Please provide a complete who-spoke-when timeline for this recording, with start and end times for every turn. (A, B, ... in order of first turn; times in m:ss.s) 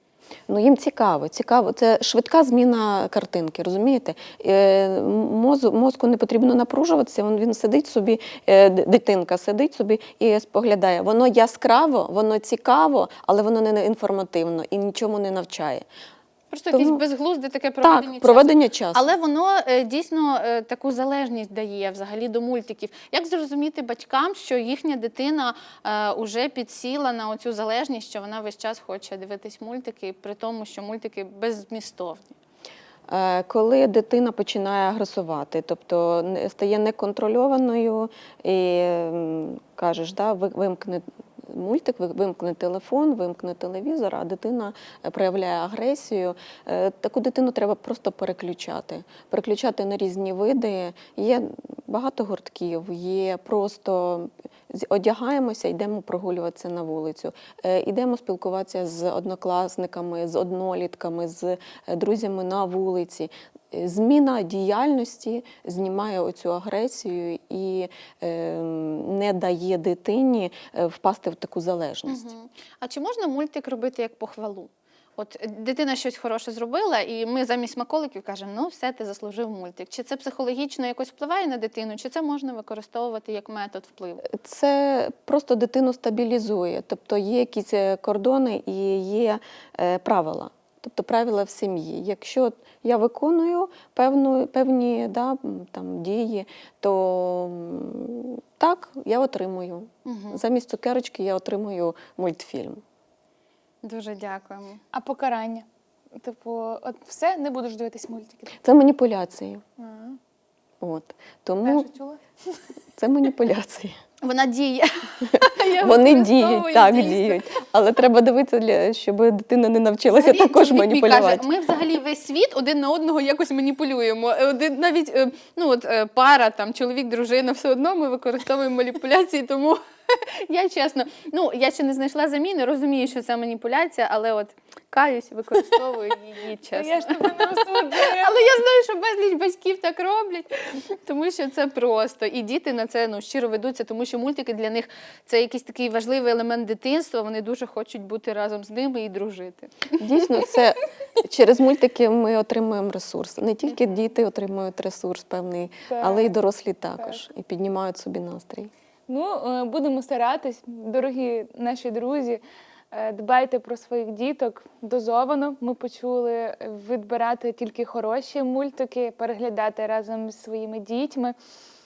0:00.5-0:15.8 A
0:16.5-0:32.3 B
0:16.7-0:17.0 A
0:17.8-0:19.1 A
0:33.1-1:12.3 A
1:12.1-1:24.2 B
1:24.2-1:42.8 A
1:40.1-1:40.4 B
1:43.8-1:44.8 B
1:44.9-1:48.6 C
1:48.6-1:49.6 A
1:49.8-1:50.2 C
1:50.8-1:51.9 A
1:51.6-1:52.2 C
1:53.0-1:54.0 A
1:54.2-1:57.4 B
1:55.7-2:01.5 A
2:00.1-2:09.8 B
2:10.4-2:30.5 B
2:16.7-2:18.4 C
2:30.0-2:38.7 A
2:35.9-2:36.4 C
2:39.1-2:51.4 C